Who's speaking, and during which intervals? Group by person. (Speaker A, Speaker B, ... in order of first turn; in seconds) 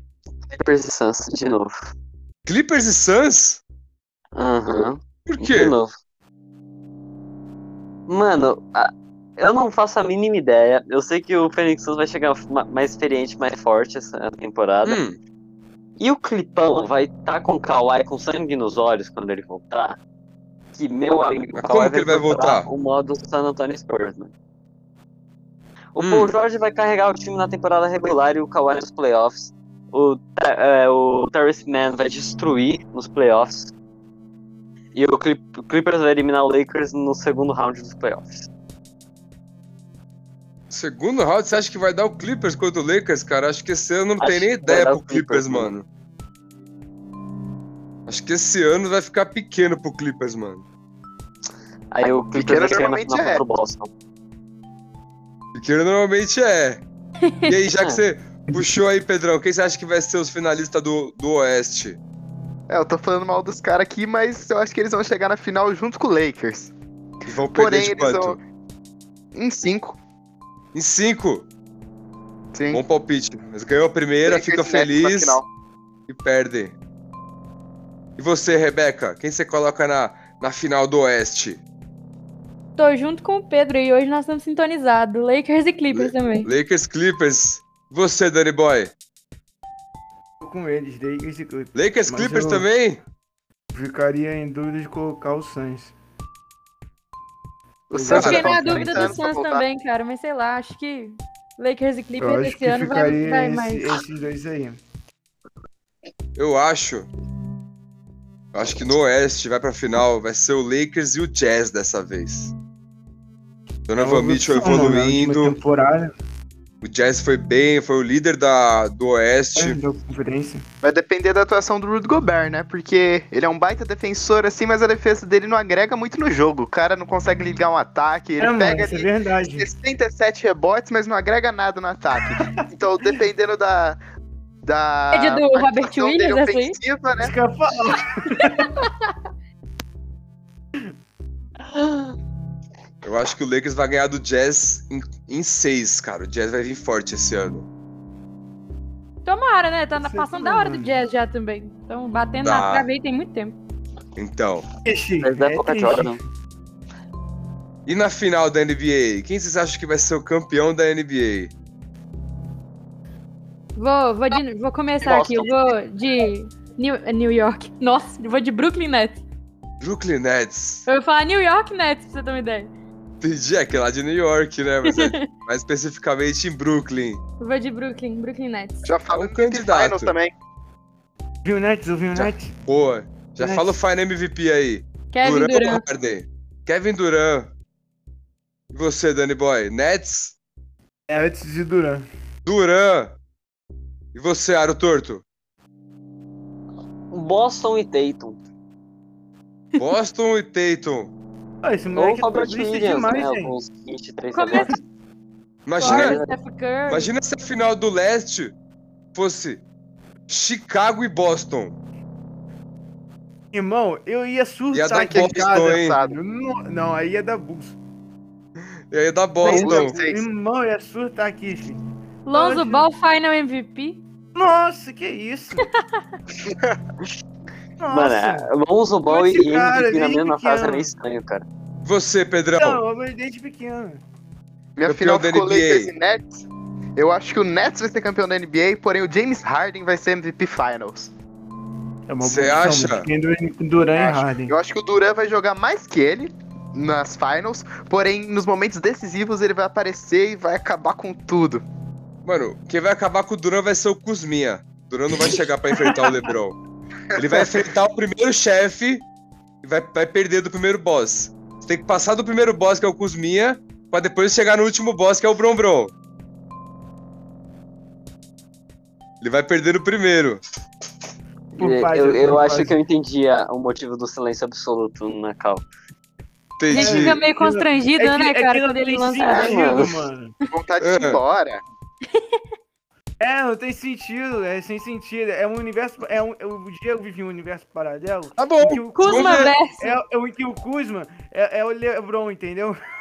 Speaker A: 0.5-1.9, 4.3-5.9, 8.1-15.0, 16.0-20.0, 20.7-24.3, 25.9-33.7, 34.9-38.5, 44.2-45.7, 51.9-53.9, 155.2-156.2, 165.0-165.7, 197.1-198.4, 201.9-204.8, 205.8-206.3, 227.9-231.4, 271.6-275.6, 279.2-280.0
Speaker B: 2.5-3.6, 5.2-5.7, 14.8-15.2, 21.5-22.7, 26.0-26.3, 40.7-45.8, 48.1-50.6, 55.5-56.8, 57.5-62.0, 67.2-68.4, 70.7-71.5, 72.7-75.4, 76.1-76.7, 78.2-81.6, 85.9-88.9, 91.7-93.0, 98.1-98.5, 106.3-107.1, 108.5-112.5, 113.9-115.5, 116.8-119.8, 143.0-147.7, 152.4-152.9, 154.2-154.6, 157.8-161.5, 169.8-170.8, 173.2-177.2, 179.1-180.1, 182.1-187.5, 188.7-190.3, 192.4-193.1, 194.1-195.2, 199.8-201.1, 205.7-206.2, 206.9-208.5, 209.1-209.6, 210.3-211.8, 214.7-216.0, 218.9-219.9, 231.8-232.8, 234.8-235.9, 242.2-243.1, 252.2-256.6, 257.1-259.0, 259.6-265.9, 269.2-270.4, 276.6-277.2, 280.8-281.2, 288.4-289.5
Speaker C: 52.3-53.4, 62.7-66.7, 67.5-68.4, 69.3-70.0, 72.5-72.8, 74.2-75.5, 97.9-99.6, 120.8-134.0, 134.6-137.3, 178.8-180.3, 214.9-216.2, 219.4-220.2, 226.4-226.8, 234.8-236.4, 236.9-241.1, 244.0-251.6, 257.2-257.5, 280.5-281.6
Speaker D: 57.2-57.5, 82.8-86.5, 98.1-104.0, 135.1-136.8, 138.4-139.1, 149.2-153.6, 163.8-169.2, 170.9-172.7, 174.8-175.3, 177.4-178.8, 185.1-185.8, 204.3-204.8, 205.8-207.1, 222.2-224.0, 276.7-279.9, 288.9-289.9
Speaker E: 90.4-92.7, 93.7-95.9, 97.9-99.2, 102.2-104.8, 114.0-116.1, 119.5-120.6, 128.4-129.7, 132.4-132.7, 137.2-138.8, 150.0-150.9, 154.8-156.2, 181.4-182.5, 183.4-183.7, 191.1-192.0, 201.6-203.5, 213.5-217.8, 219.4-221.8, 222.3-222.9, 224.3-225.7, 227.8-228.5, 229.1-230.9, 232.6-234.0, 242.1-244.5, 271.6-272.7, 276.7-280.3, 283.2-292.8